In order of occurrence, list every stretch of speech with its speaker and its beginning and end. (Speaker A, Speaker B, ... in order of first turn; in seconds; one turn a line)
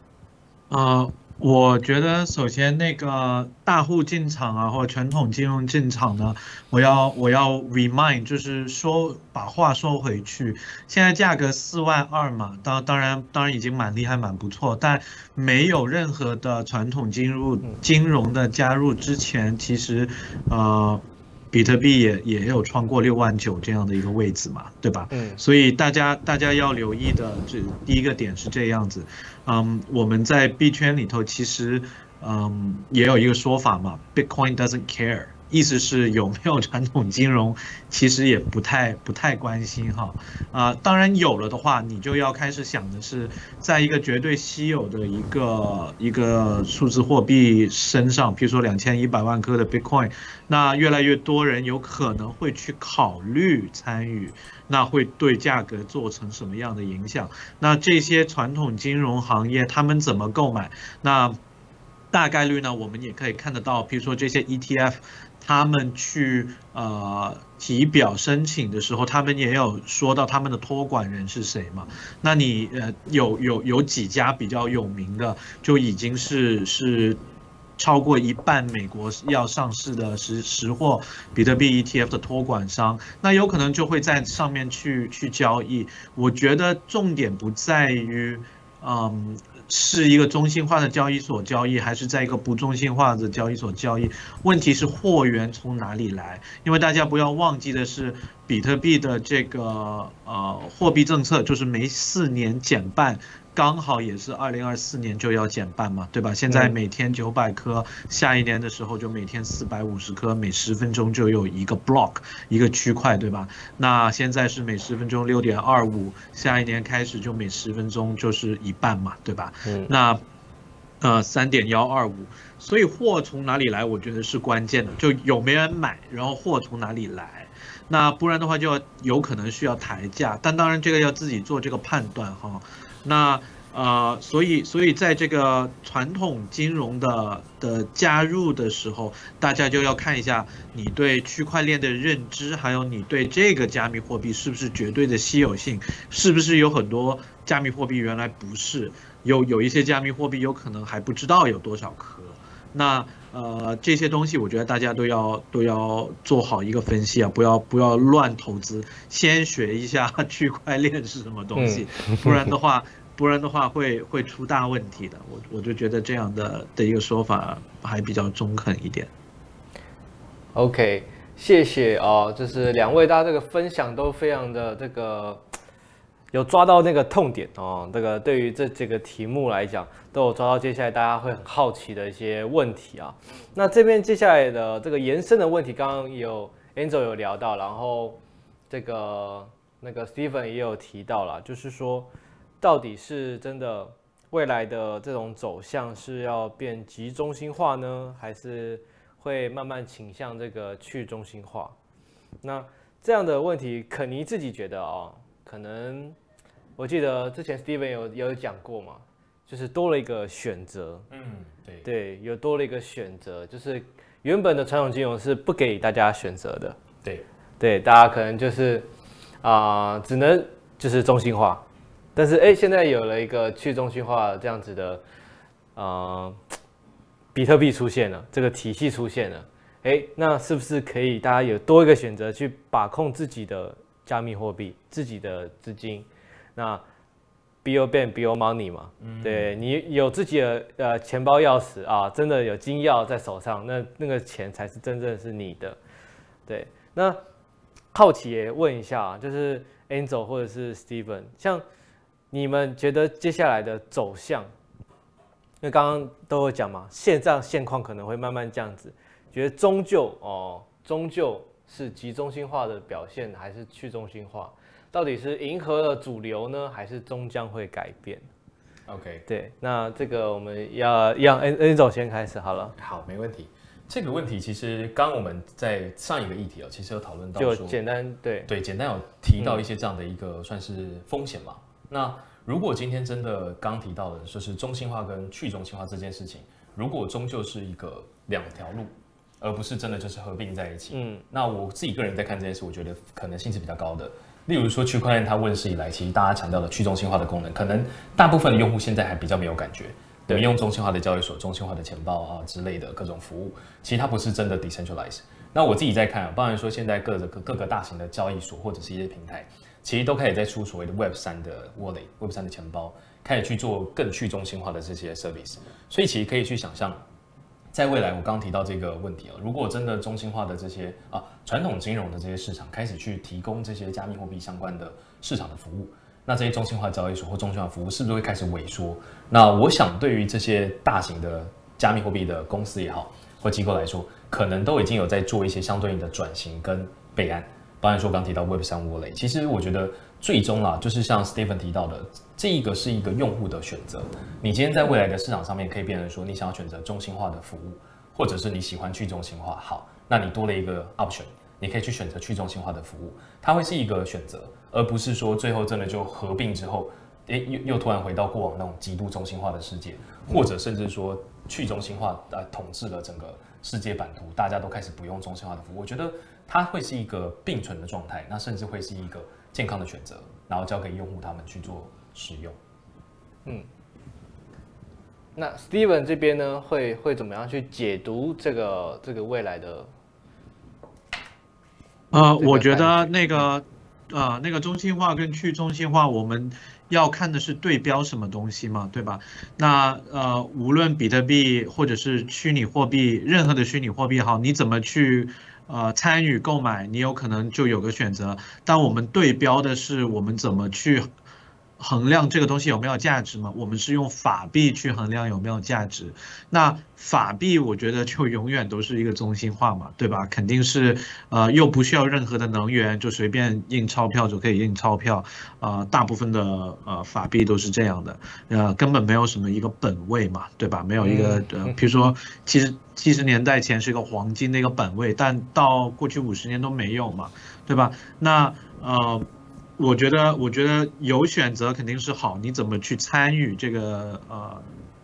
Speaker A: 0.7-61.4
Speaker B: 25.1-25.4
Speaker A: 62.1-77.2
Speaker A: 77.8-120.2
Speaker B: 106.5-106.8
Speaker B: 119.7-119.9
Speaker A: 121.0-169.1
Speaker B: 161.6-162.4
Speaker B: 170.6-175.4
Speaker B: 176.3-188.2
Speaker B: 188.7-201.8
Speaker B: 202.4-206.2
Speaker B: 206.8-211.1
Speaker C: 211.1-211.9
Speaker B: 211.8-216.8
Speaker B: 217.6-218.9
Speaker B: 219.4-221.6
Speaker B: 222.2-225.0
Speaker B: 225.8-226.4
Speaker B: 227.3-236.8
Speaker B: 237.6-245.8
Speaker C: 239.0-239.5
Speaker B: 246.5-247.2
Speaker B: 247.9-251.6
Speaker B: 252.3-254.5
Speaker B: 255.6-268.3
Speaker C: 268.9-269.3
Speaker B: 269.3-272.8
Speaker C: 272.8-277.8
Speaker B: 277.4-278.5
Speaker C: 278.5-317.0
Speaker B: 279.4-279.6
Speaker B: 290.9-291.2
Speaker C: 317.7-372.6
Speaker B: 375.4-379.9
Speaker A: 382.1-401.1
Speaker B: 382.4-383.4
Speaker A: 401.8-429.3
Speaker B: 421.0-421.8
Speaker A: 429.8-434.6